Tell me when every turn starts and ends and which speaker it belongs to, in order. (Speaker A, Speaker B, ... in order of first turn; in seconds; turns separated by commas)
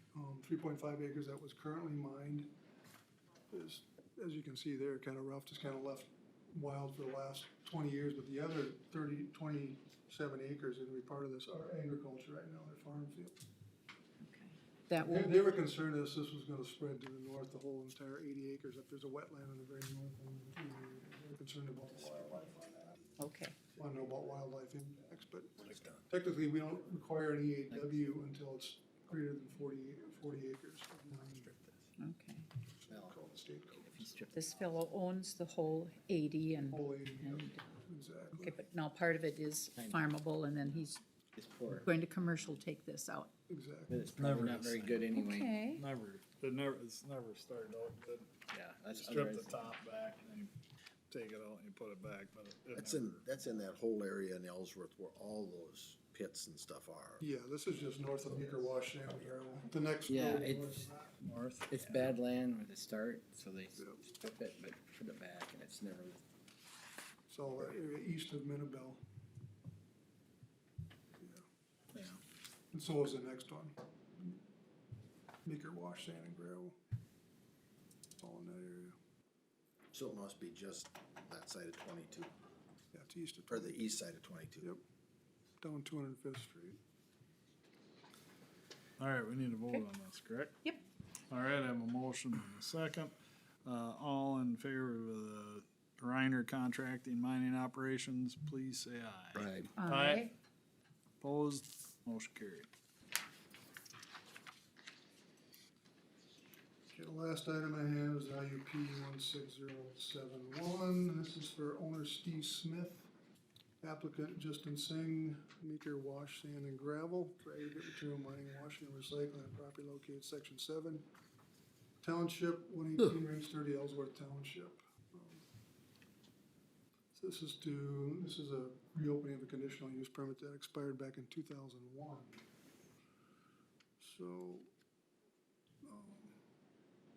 Speaker A: 0.1-2.5, Speaker A: 3.5-13.4, Speaker B: 14.2-15.4, Speaker A: 15.0-23.0, Speaker B: 23.2-23.6, Speaker A: 23.8-31.6, Speaker C: 25.6-26.0, Speaker B: 32.0-32.5, Speaker A: 32.8-34.1, Speaker D: 32.9-33.2, Speaker D: 33.8-34.5, Speaker B: 34.3-37.6, Speaker A: 36.6-38.5, Speaker B: 38.4-41.0, Speaker D: 39.8-40.8, Speaker D: 41.4-41.9, Speaker B: 41.8-43.3, Speaker A: 43.5-44.0, Speaker D: 43.9-45.6, Speaker E: 44.2-45.1, Speaker B: 45.1-45.8, Speaker E: 45.7-50.5, Speaker D: 48.5-49.7, Speaker E: 51.1-53.2, Speaker C: 52.7-57.2, Speaker A: 57.2-61.2, Speaker D: 60.1-60.9, Speaker E: 61.2-62.1, Speaker D: 61.7-66.2, Speaker A: 63.8-64.1, Speaker A: 67.3-69.0, Speaker A: 71.2-71.4, Speaker E: 71.9-72.2, Speaker A: 72.7-74.4, Speaker A: 75.5-76.8, Speaker A: 78.2-79.0, Speaker C: 79.9-82.3, Speaker A: 82.9-83.8, Speaker C: 83.5-84.7, Speaker A: 85.6-86.8, Speaker E: 89.0-90.6, Speaker E: 91.3-100.3, Speaker D: 99.4-99.7, Speaker B: 99.8-100.3, Speaker E: 101.2-102.7, Speaker A: 106.9-113.1, Speaker A: 113.8-121.0, Speaker A: 122.0-125.5, Speaker A: 127.1-132.4, Speaker A: 134.0-134.7, Speaker A: 135.8-136.4